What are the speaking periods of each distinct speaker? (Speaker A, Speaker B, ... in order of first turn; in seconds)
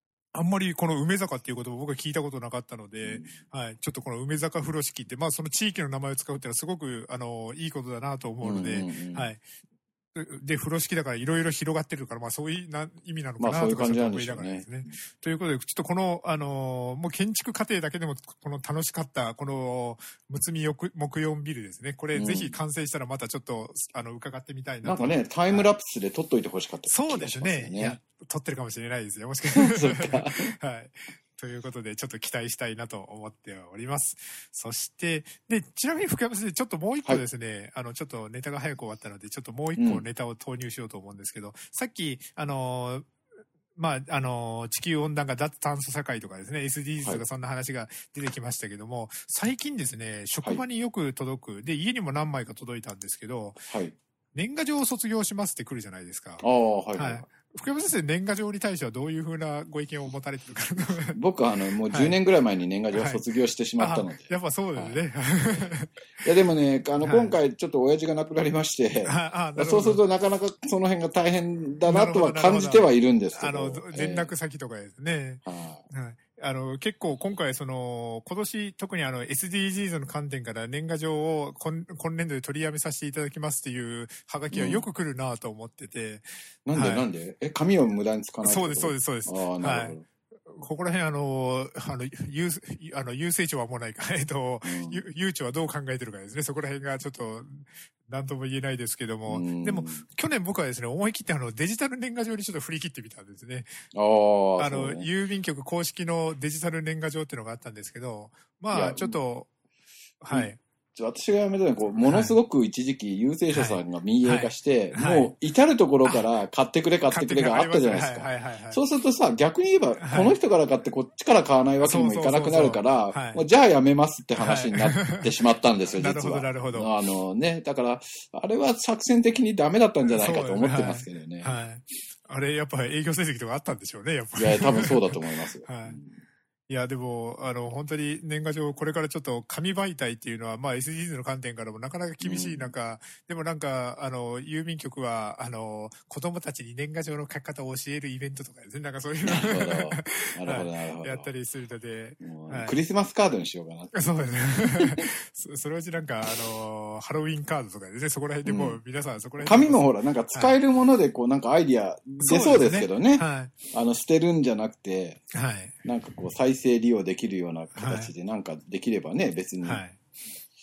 Speaker A: 0.3-9.4, 10.2-25.7, 26.9-43.1, 43.8-53.7, 54.3-61.2, 61.9-62.2, 62.9-63.2, 63.8-65.9, 67.0-67.4, 69.0-70.0, 71.9-87.1, 88.4-103.8, 104.6-109.5, 110.2-110.6, 112.0-112.4, 113.5-115.3, 117.1-118.8, 120.0-120.3, 121.8-123.4, 124.4-125.3, 126.0-126.9, 130.2-136.0, 136.7-152.8, 153.9-160.6, 162.2-163.5, 165.3-165.8, 167.8-168.1, 169.6-170.0
Speaker B: 3.0-3.4, 8.4-9.3, 13.4-14.9, 22.1-22.5, 24.8-28.0, 29.6-30.6, 39.8-40.0, 53.7-54.0, 56.4-57.2, 61.1-74.3, 75.4-75.8, 84.5-84.9, 86.7-90.0, 94.6-95.0, 99.3-100.0, 103.9-105.1, 108.7-109.2, 110.3-131.6, 134.4-136.2, 142.2-142.7, 149.2-151.3, 152.2-153.9, 154.6-155.1, 158.4-158.8, 159.4-165.2, 165.8-169.8